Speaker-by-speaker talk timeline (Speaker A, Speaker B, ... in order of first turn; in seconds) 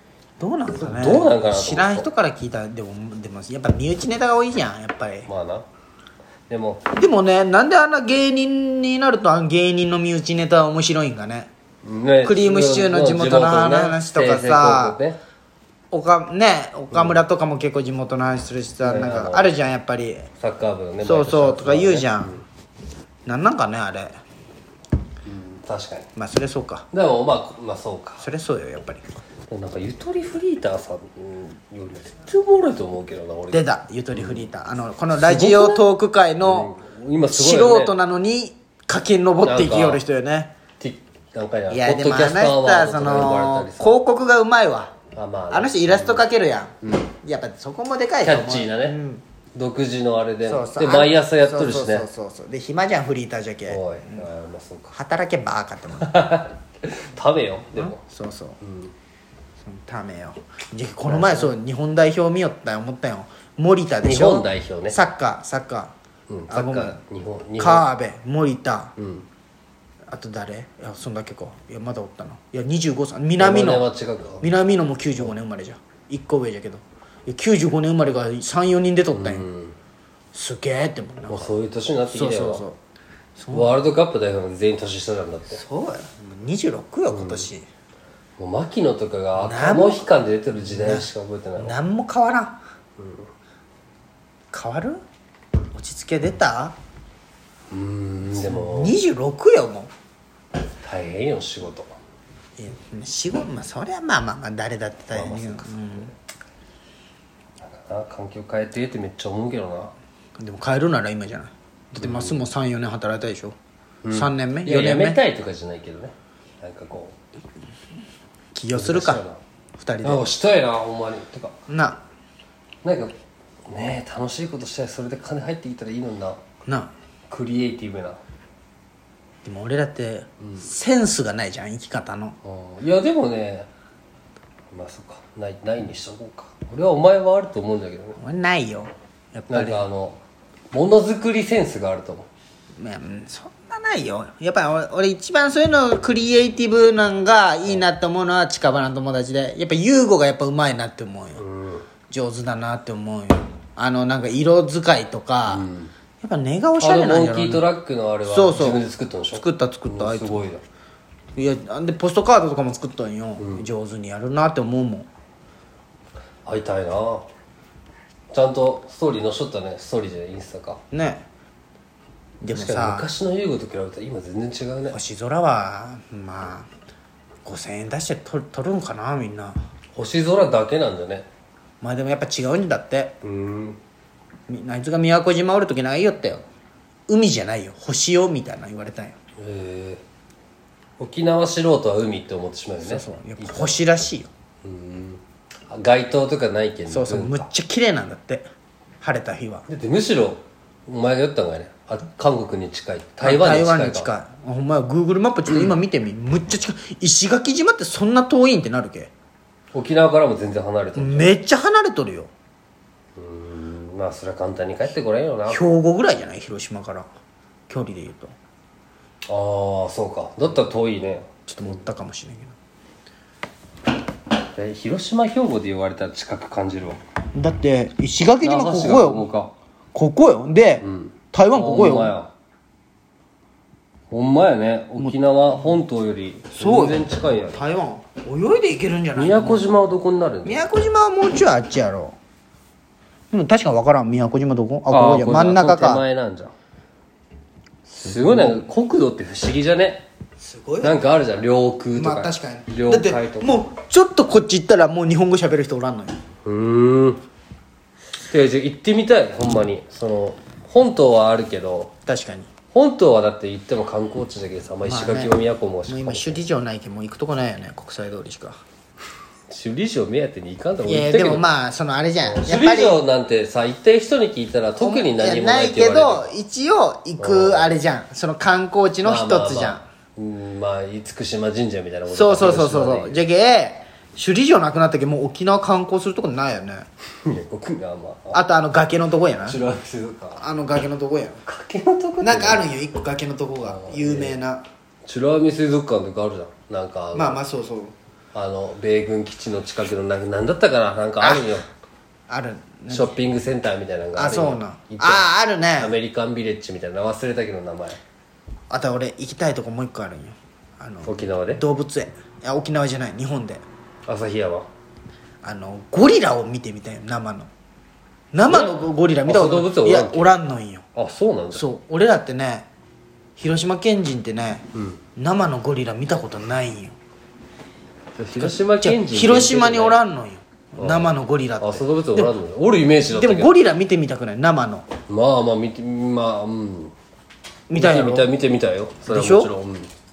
Speaker A: 0.4-5.3, 6.9-11.5, 12.2-15.0, 15.9-20.3, 21.0-22.4, 23.3-24.1, 26.2-26.9, 28.2-29.0, 33.5-36.7, 37.3-40.5, 41.7-45.0, 45.5-49.2, 50.5-54.3, 54.9-56.3, 57.8-58.6, 59.6-65.9, 66.5-67.0, 67.6-69.0, 70.1-73.9, 74.4-79.5, 80.3-81.5, 82.1-82.8, 83.4-83.8, 85.5-87.7, 89.3-90.1, 90.6-91.1, 91.6-92.6, 94.5-95.0, 95.7-96.8, 98.3-99.9, 102.6-106.1, 110.4-113.5, 114.1-115.2, 118.5-119.2, 119.8-120.3, 121.7-122.0, 126.7-126.9, 129.4-132.4, 138.2-139.9, 142.8-151.4, 152.1-155.7, 156.2-157.7, 158.2-158.8, 159.3-160.5, 161.4-165.1, 170.9-171.3, 172.4-173.1, 174.9-176.7, 177.4-179.6, 181.8-183.2, 184.5-186.4, 187.1-189.2, 192.8-194.3, 196.9-198.5, 199.0-199.7, 203.2-209.1, 211.0-212.3, 215.5-217.1, 217.7-218.3, 221.5-222.6, 227.3-229.3, 229.9-232.2, 235.0-235.8, 236.5-239.8, 240.4-242.2, 243.3-246.0, 248.1-248.6, 250.4-251.0, 251.9-256.2, 262.1-262.5, 264.9-265.4, 265.9-268.6, 270.9-273.0, 274.8-279.9, 282.1-286.9, 288.3-289.6, 290.4-291.4, 292.2-294.6, 297.1-297.9, 301.2-301.6, 302.3-303.2, 304.2-306.0, 308.7-313.6, 315.4-317.5, 318.3-320.9, 321.5-322.7, 323.4-326.9, 328.4-332.4, 333.1-334.9, 337.7-338.3, 339.1-339.5
Speaker B: 0.8-2.1, 5.3-5.7, 6.5-6.8, 11.8-15.2, 16.9-17.2, 18.8-19.5, 20.4-22.4, 25.2-26.1, 26.9-28.3, 29.5-34.5, 35.1-35.9, 36.4-38.0, 39.4-40.0, 40.8-44.0, 45.1-46.3, 46.8-47.1, 48.2-49.0, 49.5-52.1, 53.7-55.0, 56.0-58.0, 58.6-58.9, 61.0-61.5, 64.0-65.0, 66.3-67.9, 69.0-69.3, 73.4-74.5, 79.1-79.8, 81.3-82.6, 83.5-85.6, 87.1-87.5, 88.4-91.8, 93.0-93.3, 97.7-99.0, 100.8-102.0, 105.1-106.0, 107.6-109.9, 112.0-112.4, 114.0-117.2, 118.7-119.4, 120.0-121.5, 122.8-123.1, 123.7-126.4, 127.3-128.2, 132.4-133.7, 134.7-138.2, 139.5-140.2, 140.7-142.3, 151.4-151.9, 155.5-155.9, 156.8-160.6, 163.4-163.7, 166.4-167.3, 168.3-170.8, 172.5-174.9, 179.9-181.3, 183.2-183.8, 189.4-190.0, 191.0-193.8, 194.6-197.5, 199.7-204.1, 205.5-205.8, 209.7-211.4, 213.2-215.6, 219.3-221.3, 224.5-227.0, 228.4-229.5, 230.8-232.3, 234.1-237.6, 239.2-240.7, 244.9-246.5, 247.9-250.1, 250.8-253.7, 256.4-257.2, 258.2-261.9, 262.7-266.4, 269.5-271.5, 272.2-276.3, 277.2-277.7, 279.0-283.2, 287.2-288.4, 289.5-290.4, 291.4-292.7, 293.6-294.4, 295.1-297.4, 298.3-301.7, 302.9-308.0, 311.0-311.6, 314.1-314.7, 318.5-320.4, 320.9-321.7, 324.7-325.0, 328.2-330.0, 330.8-333.5, 335.1-336.9, 337.7-339.9